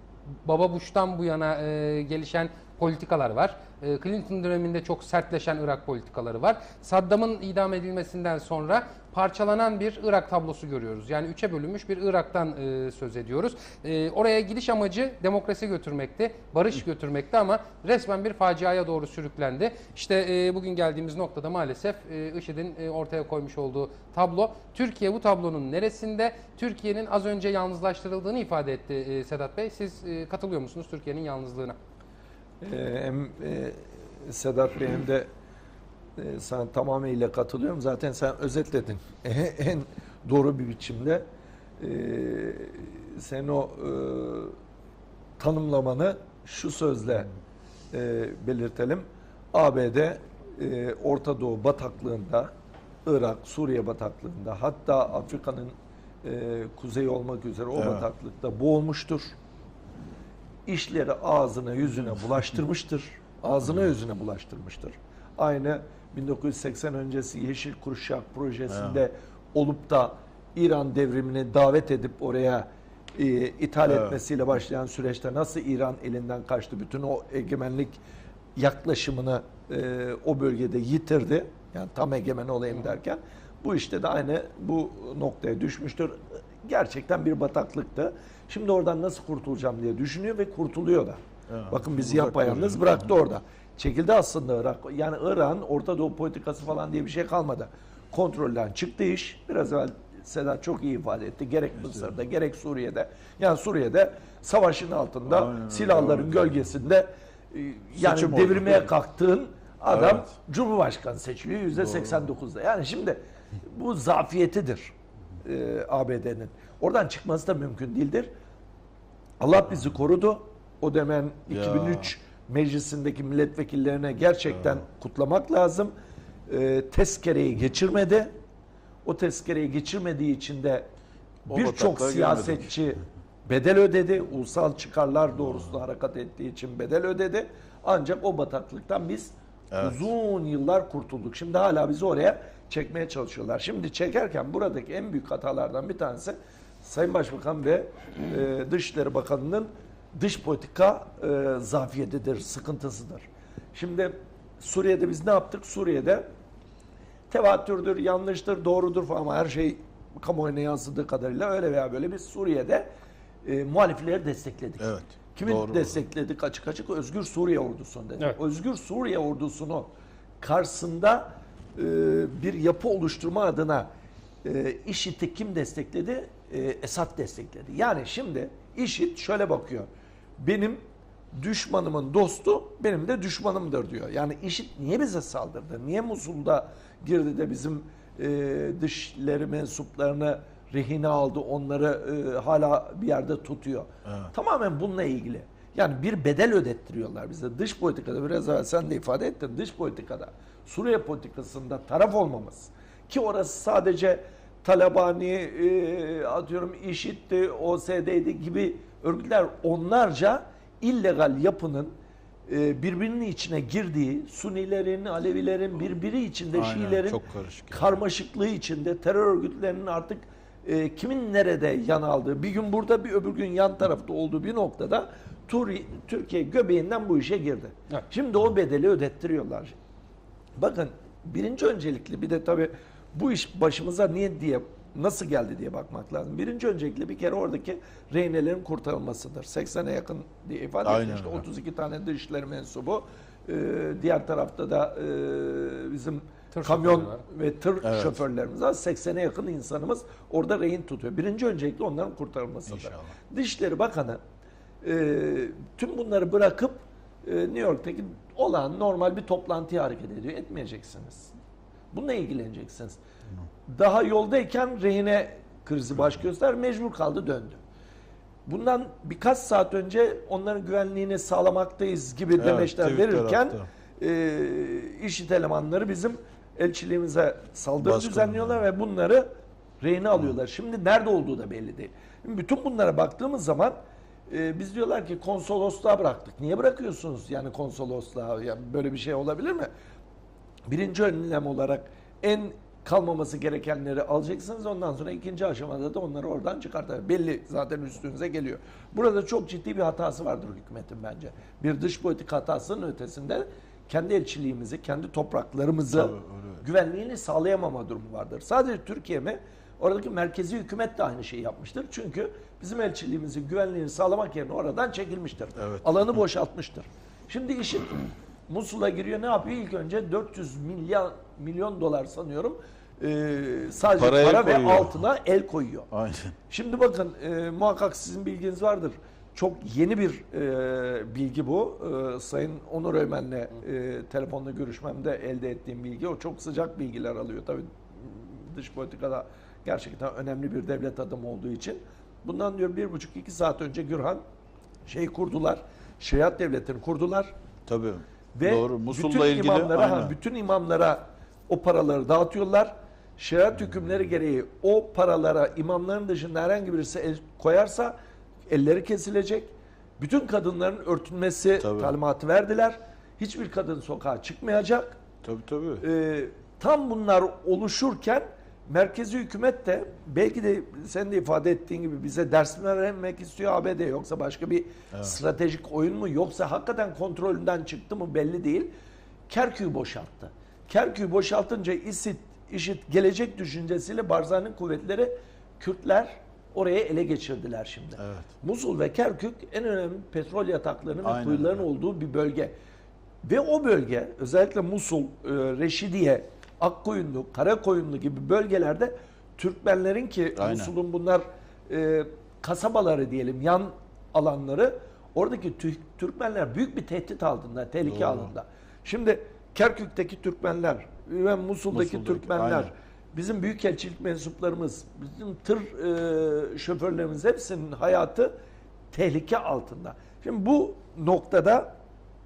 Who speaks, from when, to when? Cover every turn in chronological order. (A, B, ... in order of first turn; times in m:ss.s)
0:00.4-0:31.8 A
0:32.6-0:35.3 B
0:36.2-0:41.2 B
0:41.8-0:44.6 B
0:45.4-0:47.3 B
0:47.9-0:52.5 B
0:53.0-0:59.3 B
0:57.8-0:58.0 C
1:00.7-1:18.0 B
1:08.7-1:09.0 C
1:13.9-1:14.2 C
1:18.6-1:31.2 B
1:31.5-1:33.1 C
1:31.7-1:54.9 B
1:41.8-1:42.1 C
1:45.2-1:46.7 C
1:48.0-1:48.9 C
1:49.9-1:50.3 C
1:51.7-1:52.3 C
1:55.4-1:58.3 B
1:59.4-2:05.9 B
2:01.5-2:02.1 C
2:04.5-2:04.8 C
2:06.5-2:08.3 B
2:09.0-2:10.9 B
2:11.5-2:12.7 C
2:11.5-2:36.2 B
2:19.7-2:20.0 C
2:37.3-2:42.9 B
2:43.4-2:49.9 B
2:44.8-2:46.0 C
2:50.4-2:53.9 B
2:54.4-3:00.8 B
3:01.3-3:31.9 B
3:14.0-3:14.3 C
3:32.5-3:37.2 B
3:36.5-3:38.0 C
3:37.7-3:49.7 B
3:50.6-4:14.2 B
4:00.8-4:01.4 C
4:06.5-4:07.2 A
4:07.8-4:08.2 C
4:12.7-4:13.1 C
4:14.8-4:21.3 B
4:21.9-4:23.0 B
4:23.7-4:27.6 B
4:28.4-4:39.2 B
4:32.4-4:33.7 C
4:37.8-4:38.6 C
4:39.8-4:43.8 B
4:44.3-4:49.7 B
4:50.7-5:25.9 B
5:05.9-5:06.6 C
5:15.6-5:15.9 C
5:24.0-5:25.0 C
5:25.9-5:26.3 C
5:26.5-5:44.2 B
5:44.9-5:47.3 B
5:47.7-5:50.1 C
5:48.3-5:57.9 B
5:58.5-6:05.0 B
6:01.6-6:01.9 C
6:05.2-6:05.8 C
6:05.8-6:18.7 B
6:19.3-6:32.5 B
6:28.0-6:28.3 C
6:31.0-6:31.6 C
6:33.2-6:58.3 B
6:40.4-6:40.7 C
6:47.8-6:48.3 C
6:51.7-6:52.7 C
6:58.9-7:01.7 B